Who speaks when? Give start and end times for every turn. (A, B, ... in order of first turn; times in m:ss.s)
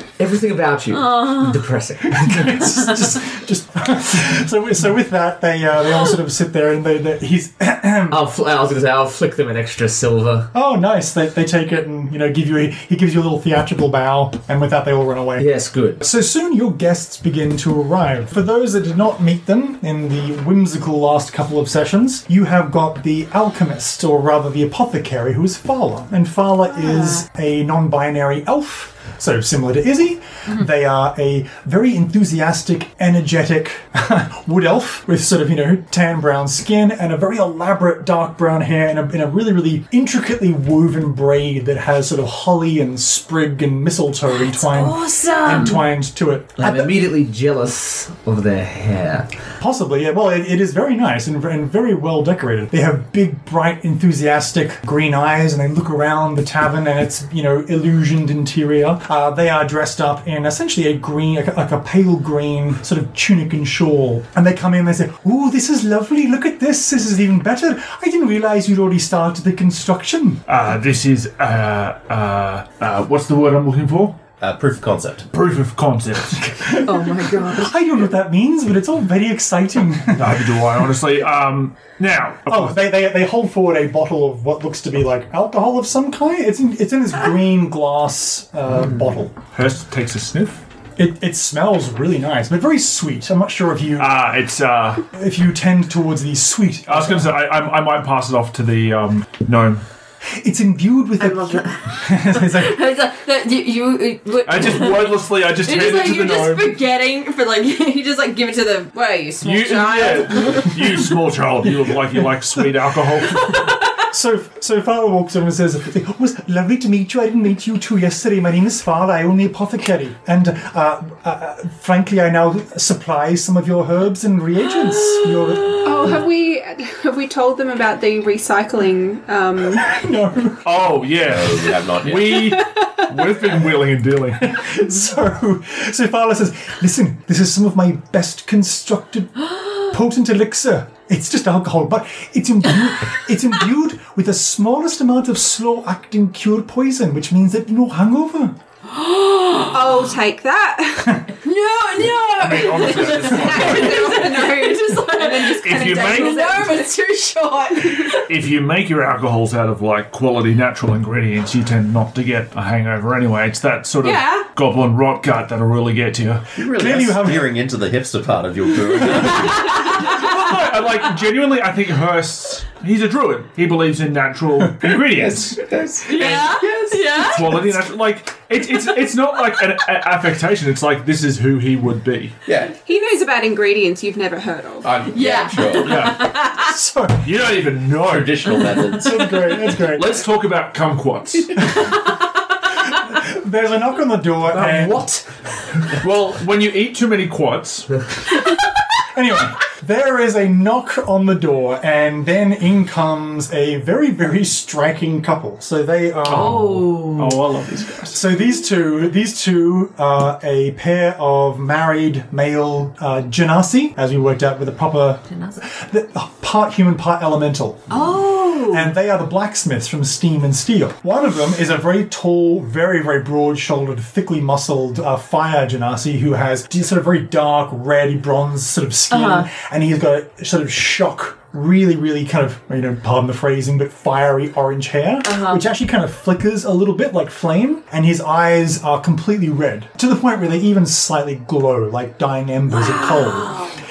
0:00.2-0:02.8 A
0:00.9-0:01.6 B
0:02.1-0:08.2 C
0:08.1-0:10.5 A
0:10.5-0:15.5 C
0:15.4-0:16.0 A
0:16.0-0:46.9 C
0:26.9-0:27.2 B
0:44.3-0:45.8 B
0:46.6-0:49.3 A
0:49.6-1:10.4 C
1:10.5-1:14.2 D
1:14.4-1:15.3 E
1:15.3-1:16.6 D
1:16.4-1:20.6 C
1:16.8-1:17.8 B
1:20.1-1:22.8 D
1:22.5-1:29.4 C
1:29.4-1:30.6 D
1:31.0-1:34.1 C
1:34.0-1:35.0 D
1:35.1-1:37.4 C
1:36.9-1:39.8 D
1:40.4-1:42.8 C
1:41.2-1:50.9 B
1:44.4-1:46.8 D
1:49.4-1:53.6 D
1:53.3-1:54.0 B
1:54.1-2:06.2 C
2:05.7-2:06.1 B
2:05.8-2:09.9 F
2:09.8-2:10.7 C
2:10.6-2:14.6 D
2:11.1-2:12.5 E
2:14.4-2:28.6 C
2:28.8-2:30.0 B
2:29.7-2:31.2 F
2:31.4-2:38.2 B
2:32.3-2:34.2 D
2:32.7-2:38.2 F
2:35.5-2:36.6 D
2:38.3-2:46.5 D
2:44.0-2:44.4 B
2:46.6-2:49.8 E
2:46.8-2:47.5 C
2:49.1-2:50.3 B
2:49.4-2:55.6 D
2:54.9-2:57.0 E
2:56.1-2:57.7 B
2:56.2-2:56.4 D
2:57.2-3:02.4 D
3:02.4-3:02.7 E
3:02.8-3:05.0 F
3:04.8-3:06.1 E
3:05.1-3:06.7 B
3:05.8-3:06.4 D
3:06.6-3:07.3 C
3:07.2-3:08.9 D
3:07.8-3:09.4 E
3:09.0-3:10.2 C
3:09.8-3:11.8 D
3:11.7-3:12.2 B
3:13.0-3:15.0 C
3:14.5-3:15.2 A
3:16.0-3:18.0 D
3:19.0-3:26.8 C
3:26.3-3:28.2 D
3:26.3-3:27.4 B
3:28.1-3:38.1 C
3:37.9-3:38.9 B
3:38.6-4:03.6 C
3:49.1-3:49.4 B
3:55.2-3:55.6 B
4:02.7-4:03.8 B